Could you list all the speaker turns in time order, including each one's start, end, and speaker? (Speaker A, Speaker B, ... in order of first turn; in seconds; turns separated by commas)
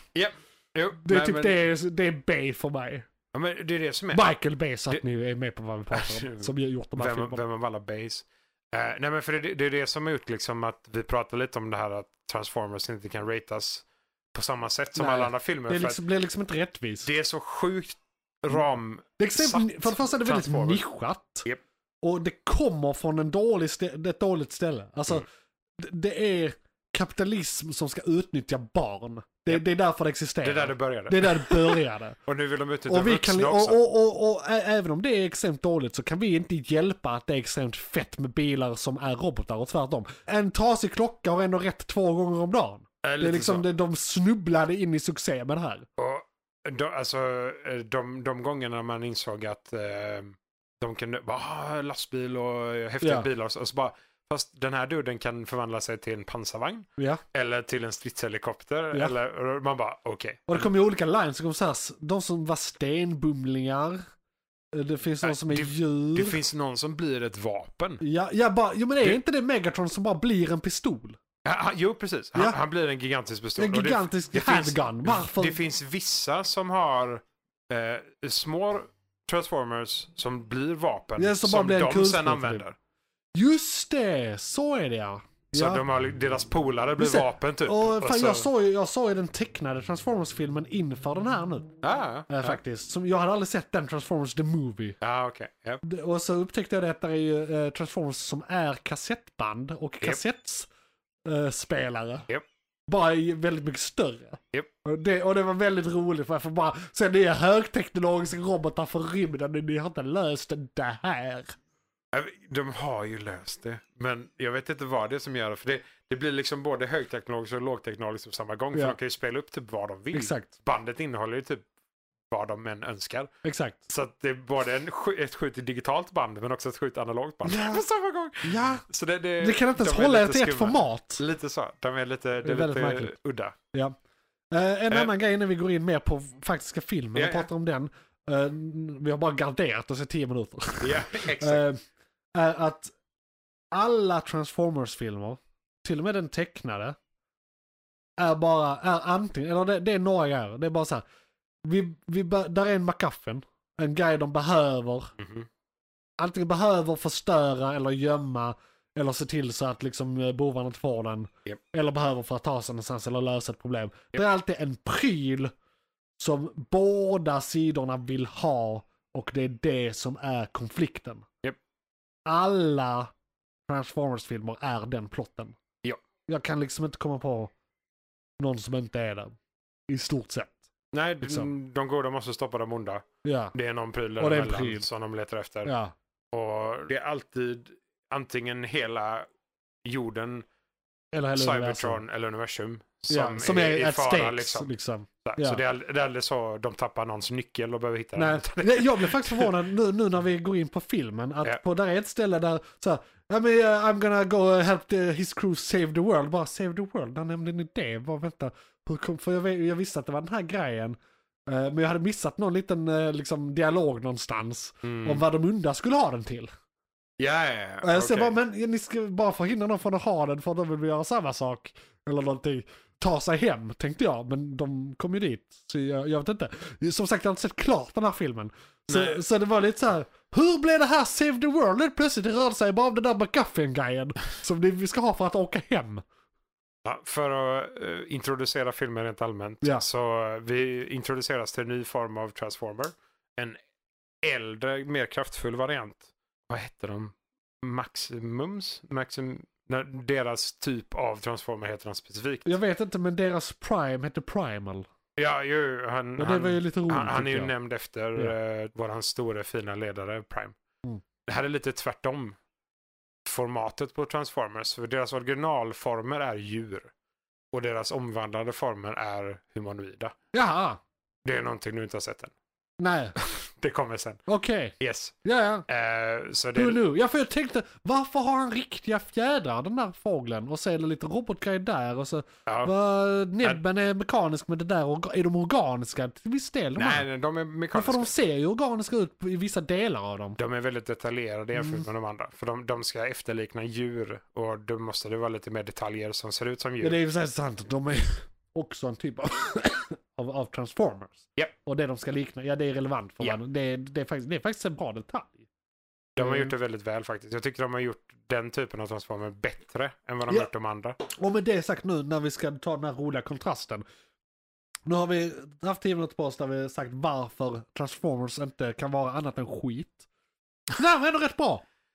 Speaker A: 0.1-1.6, Speaker B: 1.0-3.1, Speaker A: 3.3-4.3, Speaker B: 4.1-7.4, Speaker A: 5.9-16.0, Speaker B: 14.9-17.1, Speaker A: 17.0-20.8, Speaker B: 19.2-21.4, Speaker B: 22.0-25.2, Speaker B: 25.8-32.2, Speaker A: 30.4-33.8, Speaker B: 32.9-45.9, Speaker A: 43.0-43.6, Speaker A: 46.0-60.7, Speaker B: 53.0-53.3, Speaker B: 57.0-57.2, Speaker B: 60.5-64.0, Speaker B: 64.7-66.4, Speaker A: 65.2-68.0, Speaker B: 68.0-71.2, Speaker A: 71.4-82.7, Speaker B: 73.6-75.6, Speaker B: 81.2-82.6, Speaker B: 83.3-85.8, Speaker A: 85.5-88.5, Speaker B: 87.0-91.7, Speaker A: 91.8-92.6, Speaker B: 92.3-95.0, Speaker A: 95.0-95.8, Speaker B: 95.8-100.7, Speaker B: 101.2-102.3, Speaker B: 102.9-111.5, Speaker A: 112.1-121.6, Speaker B: 120.1-120.5, Speaker A: 122.3-123.3, Speaker B: 123.4-123.9, Speaker A: 123.9-133.6, Speaker B: 127.4-127.8, Speaker B: 128.4-128.8, Speaker B: 129.4-131.2, Speaker B: 132.4-133.1, Speaker B: 134.5-141.8, Speaker A: 137.1-137.5, Speaker A: 140.8-141.6, Speaker B: 142.3-142.9, Speaker B: 143.7-147.0, Speaker B: 148.2-151.0, Speaker B: 151.6-155.1, Speaker A: 155.2-155.5, Speaker B: 156.2-165.5, Speaker B: 166.2-171.3, Speaker B: 172.2-173.1, Speaker B: 173.7-175.6, Speaker B: 176.3-177.5, Speaker B: 178.4-179.3, Speaker B: 179.9-180.6, Speaker A: 180.9-185.7, Speaker B: 181.2-181.5, Speaker B: 183.2-183.5, Speaker B: 184.2-184.8, Speaker B: 185.6-185.9, Speaker A: 186.3-189.3, Speaker A: 189.8-190.4, Speaker B: 191.1-192.0, Speaker A: 191.3-194.7, Speaker B: 193.1-195.6, Speaker A: 195.2-199.5, Speaker B: 198.2-216.5, Speaker A: 214.8-215.2, Speaker A: 217.2-218.3, Speaker B: 217.8-236.0, Speaker A: 228.9-229.2, Speaker A: 236.8-243.6, Speaker A: 244.2-252.5, Speaker B: 252.4-254.9, Speaker A: 255.2-260.6, Speaker B: 256.2-257.5, Speaker A: 261.2-262.4, Speaker A: 263.2-266.9, Speaker A: 267.5-270.1, Speaker B: 270.3-270.8, Speaker A: 271.2-272.3, Speaker B: 272.8-273.2, Speaker A: 273.2-274.2, Speaker B: 274.3-275.7, Speaker A: 274.8-275.1, Speaker A: 275.7-276.8, Speaker B: 276.5-287.1, Speaker A: 282.5-282.7, Speaker A: 286.8-288.1, Speaker B: 287.7-290.4, Speaker A: 290.4-296.9, Speaker B: 291.6-291.8, Speaker B: 296.8-305.5, Speaker A: 306.1-311.0, Speaker B: 306.2-306.5, Speaker B: 311.1-313.8, Speaker B: 314.9-320.1, Speaker B: 320.7-321.6